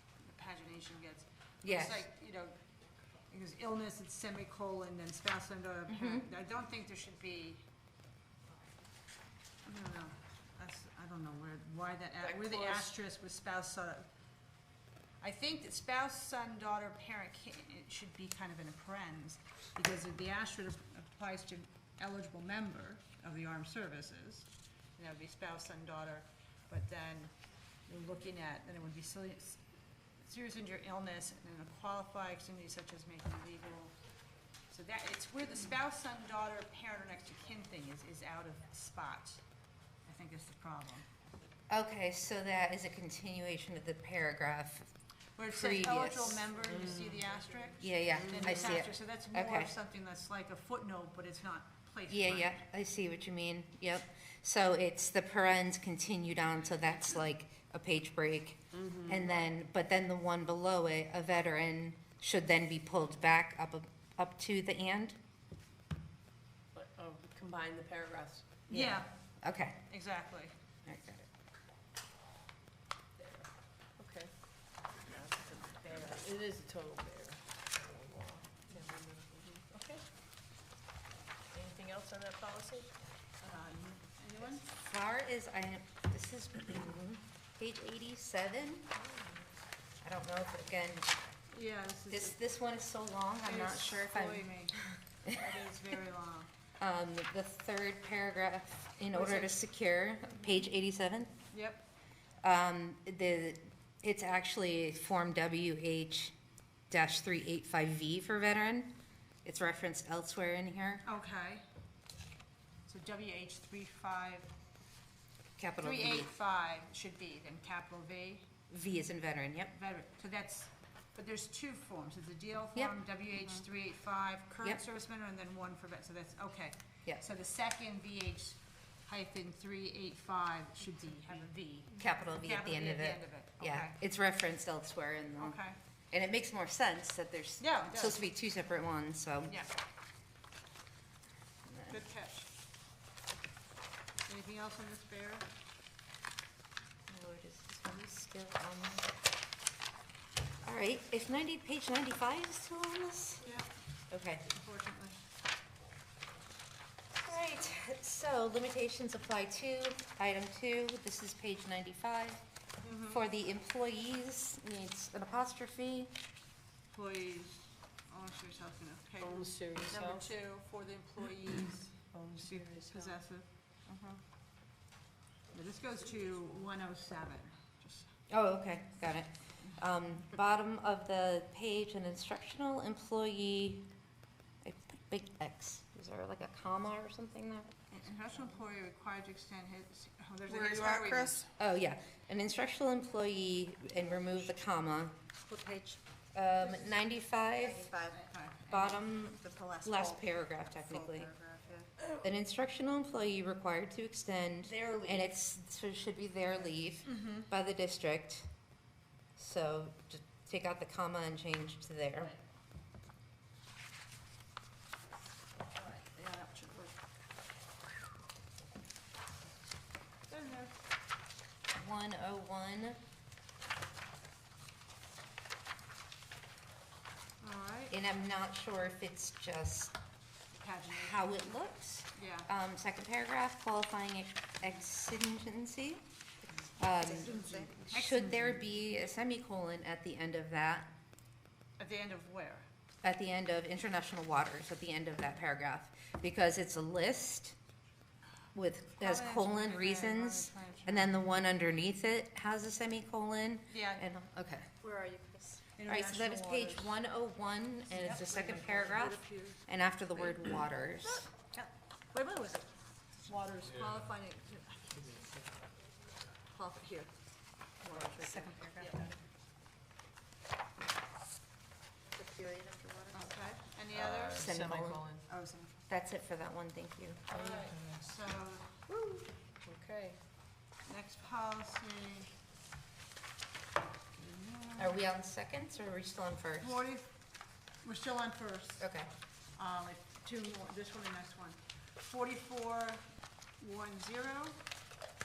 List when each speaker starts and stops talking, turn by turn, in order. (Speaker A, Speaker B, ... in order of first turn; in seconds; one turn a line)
Speaker A: 0.2-2.6
Speaker B: 1.6-2.1
Speaker A: 3.3-7.7
Speaker B: 5.9-6.3
Speaker A: 9.6-14.1
Speaker C: 12.2-12.9
Speaker A: 15.2-27.4
Speaker A: 27.9-29.6
Speaker A: 30.2-34.0
Speaker A: 34.7-39.4
Speaker A: 40.1-41.0
Speaker B: 41.7-44.9
Speaker A: 45.4-52.5
Speaker B: 45.5-46.5
Speaker C: 46.7-47.2
Speaker B: 47.8-49.7
Speaker C: 48.1-48.6
Speaker B: 52.1-65.2
Speaker C: 58.7-59.3
Speaker C: 66.7-69.0
Speaker A: 68.7-69.1
Speaker B: 68.7-69.8
Speaker A: 69.9-70.5
Speaker B: 70.9-71.3
Speaker C: 73.2-74.3
Speaker C: 75.0-80.0
Speaker C: 81.5-82.9
Speaker A: 83.4-84.6
Speaker B: 84.7-88.9
Speaker C: 89.0-89.5
Speaker B: 90.0-91.1
Speaker A: 91.5-92.4
Speaker B: 92.1-94.5
Speaker A: 93.4-96.5
Speaker B: 96.8-101.3
Speaker A: 99.1-99.6
Speaker A: 101.5-101.8
Speaker B: 102.4-106.3
Speaker B: 106.9-108.9
Speaker B: 109.4-111.0
Speaker A: 111.0-111.6
Speaker A: 112.9-114.5
Speaker B: 115.6-116.3
Speaker A: 115.8-118.5
Speaker B: 118.7-119.7
Speaker A: 119.7-134.0
Speaker B: 131.9-135.6
Speaker A: 135.4-135.8
Speaker B: 136.1-139.6
Speaker A: 137.6-138.2
Speaker B: 141.7-141.9
Speaker A: 141.9-142.5
Speaker A: 144.3-145.5
Speaker B: 147.1-149.1
Speaker B: 150.6-153.5
Speaker A: 153.4-153.7
Speaker B: 154.1-154.5
Speaker A: 154.5-155.2
Speaker B: 157.2-162.4
Speaker A: 162.8-163.2
Speaker B: 163.1-166.1
Speaker A: 166.9-173.4
Speaker C: 169.2-170.3
Speaker C: 172.1-173.2
Speaker A: 175.5-178.1
Speaker B: 178.3-183.9
Speaker B: 184.6-187.7
Speaker A: 187.9-191.5
Speaker D: 190.5-191.5
Speaker B: 191.5-195.2
Speaker D: 195.4-196.0
Speaker B: 196.3-197.9
Speaker D: 197.6-198.2
Speaker A: 198.1-199.0
Speaker B: 198.7-201.3
Speaker D: 199.4-201.9
Speaker B: 202.2-208.5
Speaker A: 204.8-205.2
Speaker A: 207.1-207.5
Speaker B: 209.4-212.3
Speaker A: 215.6-217.0
Speaker A: 220.3-220.7
Speaker B: 221.7-223.0
Speaker A: 227.4-227.9
Speaker B: 227.9-229.9
Speaker A: 230.5-231.3
Speaker B: 230.9-236.1
Speaker A: 232.2-232.5
Speaker B: 236.8-240.9
Speaker D: 236.8-237.9
Speaker A: 237.2-238.6
Speaker A: 241.8-242.7
Speaker B: 243.0-247.6
Speaker B: 248.5-254.8
Speaker A: 249.0-251.1
Speaker A: 253.7-254.1
Speaker D: 254.8-255.6
Speaker A: 255.7-256.9
Speaker B: 255.9-261.3
Speaker A: 257.9-259.6
Speaker A: 260.2-260.5
Speaker A: 261.0-265.1
Speaker A: 266.5-267.1
Speaker A: 267.8-269.1
Speaker B: 267.9-269.1
Speaker D: 272.2-273.1
Speaker A: 273.1-274.6
Speaker C: 274.0-275.2
Speaker B: 274.3-275.0
Speaker A: 275.3-275.8
Speaker B: 275.9-277.2
Speaker C: 277.3-278.1
Speaker A: 277.3-278.9
Speaker C: 278.9-280.2
Speaker A: 280.9-282.3
Speaker A: 284.2-285.0
Speaker B: 284.8-286.8
Speaker A: 286.6-287.1
Speaker A: 287.8-288.9
Speaker B: 288.8-289.1
Speaker A: 289.6-293.1
Speaker A: 293.6-294.6